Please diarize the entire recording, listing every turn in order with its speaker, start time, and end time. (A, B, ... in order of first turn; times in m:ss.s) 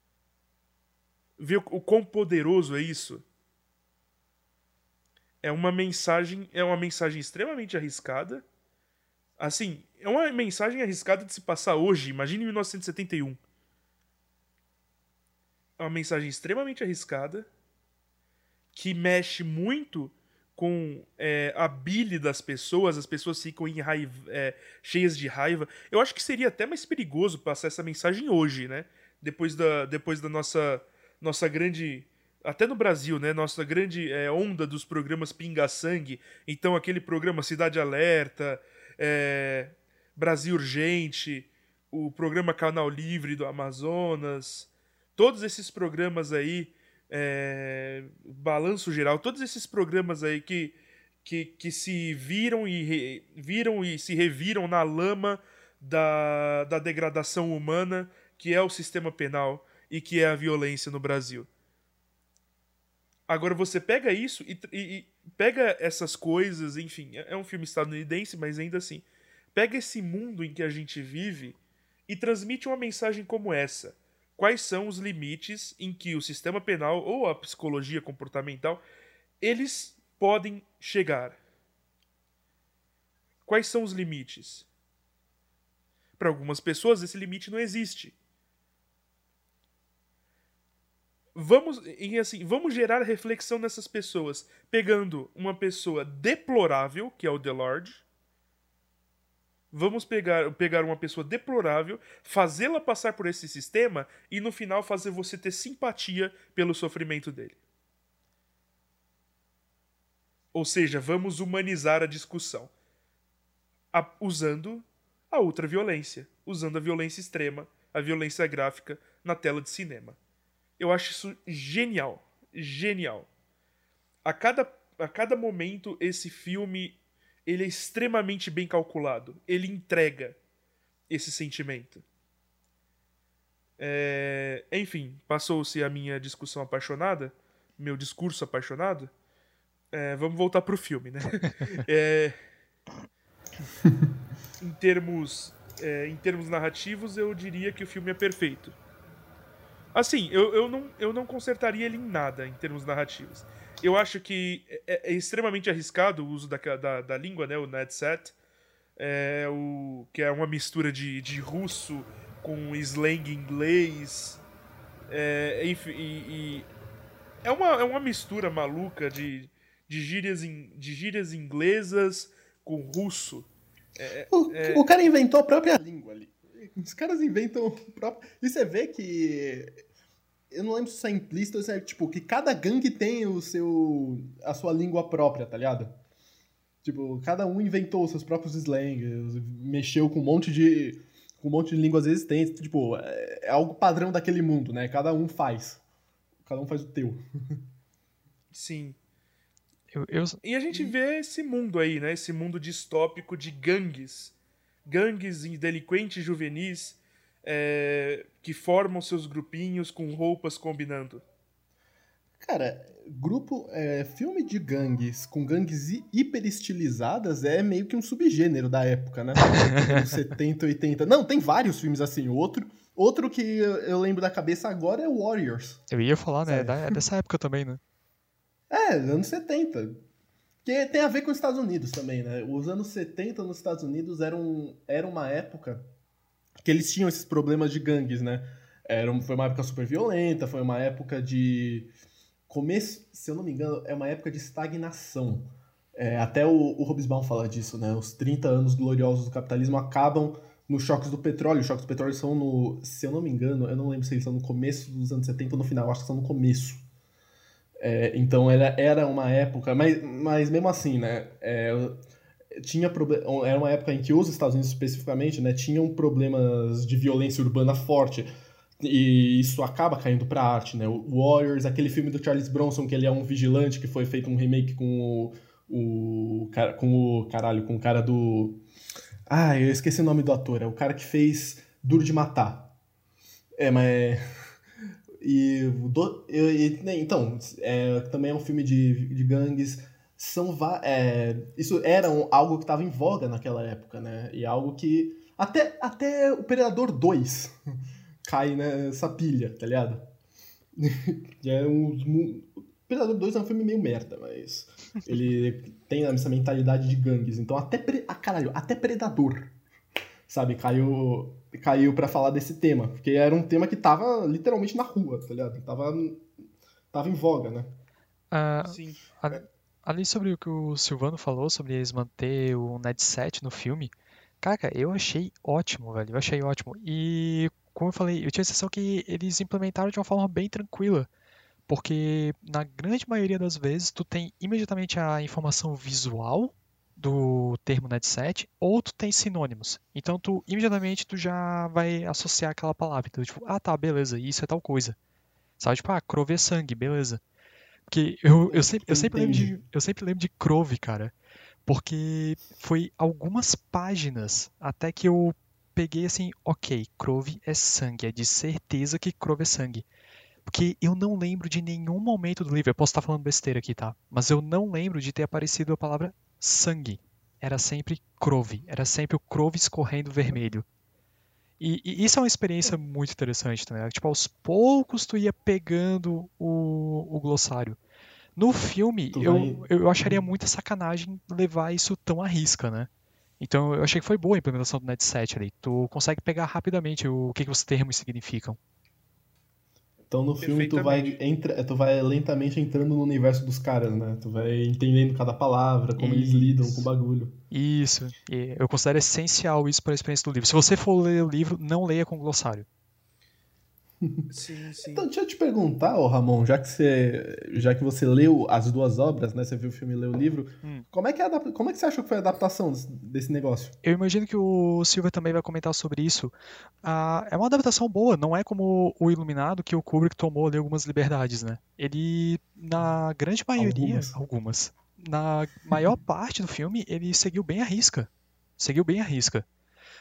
0:01.4-0:03.2 A
0:05.4-0:08.4 A
0:09.4-0:13.4 A
0:15.8-0:17.5 A
0:18.7-1:01.5 A
1:03.3-1:18.8 A
1:19.4-1:21.4 A
1:23.4-1:24.7 A
1:26.2-1:28.2 A
1:31.3-1:38.0 A
1:39.7-1:47.6 A
1:50.5-1:52.7 A
1:53.9-2:00.2 A
2:00.8-2:03.3 A
2:04.2-2:10.4 A
2:11.1-2:12.0 A
2:13.8-2:19.1 A
2:19.9-2:22.4 A
2:24.6-2:28.7 A
2:29.9-2:38.4 A
2:39.0-2:44.4 A
2:45.1-2:46.7 A
2:47.4-2:55.0 A
2:54.3-2:59.8 B
3:00.5-3:06.0 B
3:06.8-3:15.8 B
3:16.4-3:17.6 B
3:18.5-3:19.0 A
3:19.9-3:20.4 C
3:20.4-3:24.3 A
3:24.8-3:31.2 A
3:32.4-3:45.8 B
3:39.5-3:40.1 C
3:45.9-3:47.8 C
3:46.4-3:46.9 B
3:48.7-3:50.0 B
3:50.6-3:55.9 B
3:56.6-4:01.9 B
4:02.5-4:16.8 B
4:17.8-4:22.0 B
4:22.5-4:38.6 B
4:39.3-4:42.7 B
4:43.6-4:44.2 B
4:45.2-4:57.6 B
4:58.2-5:00.1 B
5:00.8-5:09.6 B
5:10.3-5:16.2 B
5:16.9-5:17.7 B
5:18.3-5:31.1 C
5:18.6-5:19.0 A
5:31.7-5:45.0 C
5:45.6-5:47.2 C
5:47.9-5:51.1 C
5:48.5-5:49.5 B
5:51.6-5:59.8 C
6:00.4-6:10.6 C
6:11.6-6:17.8 C
6:18.4-6:22.9 C
6:19.1-6:20.2 B
6:23.4-6:28.6 C
6:30.1-6:37.4 B
6:30.4-6:31.2 A
6:36.0-6:36.9 C
6:37.5-6:42.6 C
6:44.0-6:44.3 B
6:44.3-6:45.0 A
6:44.8-6:53.8 B
6:53.8-7:09.4 C
7:03.6-7:04.2 B